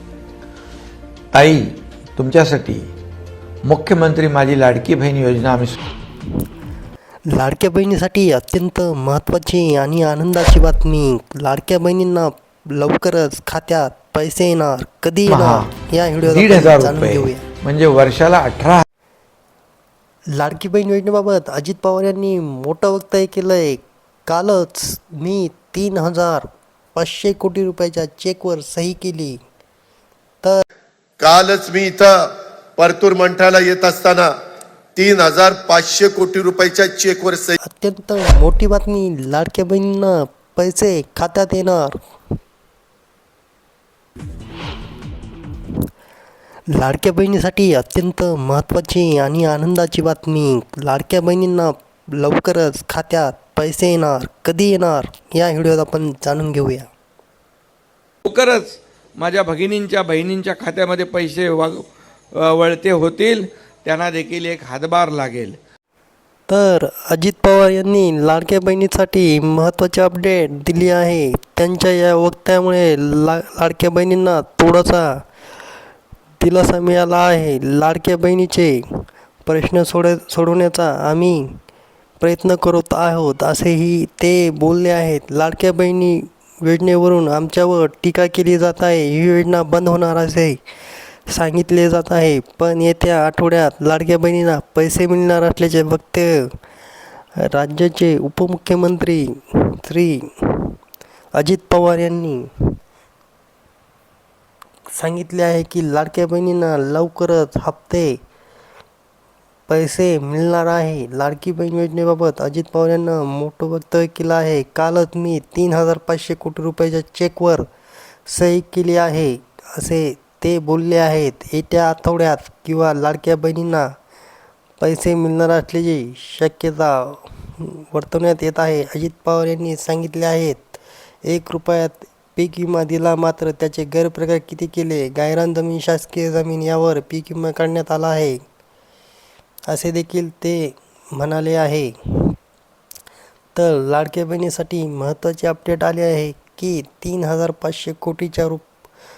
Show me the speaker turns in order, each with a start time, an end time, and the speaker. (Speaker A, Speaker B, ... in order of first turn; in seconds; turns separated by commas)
Speaker A: 1.3-2.9, Speaker A: 3.6-5.8, Speaker B: 7.3-17.5, Speaker A: 15.3-15.7, Speaker A: 16.3-18.9, Speaker B: 20.3-29.4, Speaker C: 31.2-34.3, Speaker C: 35.0-37.6, Speaker B: 37.6-42.0, Speaker B: 46.7-56.9, Speaker A: 58.3-61.8, Speaker A: 62.4-65.6, Speaker B: 66.5-75.3, Speaker B: 76.4-81.6, Speaker B: 82.2-90.6, Speaker B: 91.3-96.6, Speaker B: 97.4-100.8, Speaker B: 101.3-102.5, Speaker B: 104.9-108.2, Speaker B: 109.7-117.7, Speaker B: 118.3-123.9, Speaker B: 124.8-138.4, Speaker B: 139.7-142.3, Speaker B: 143.6-148.7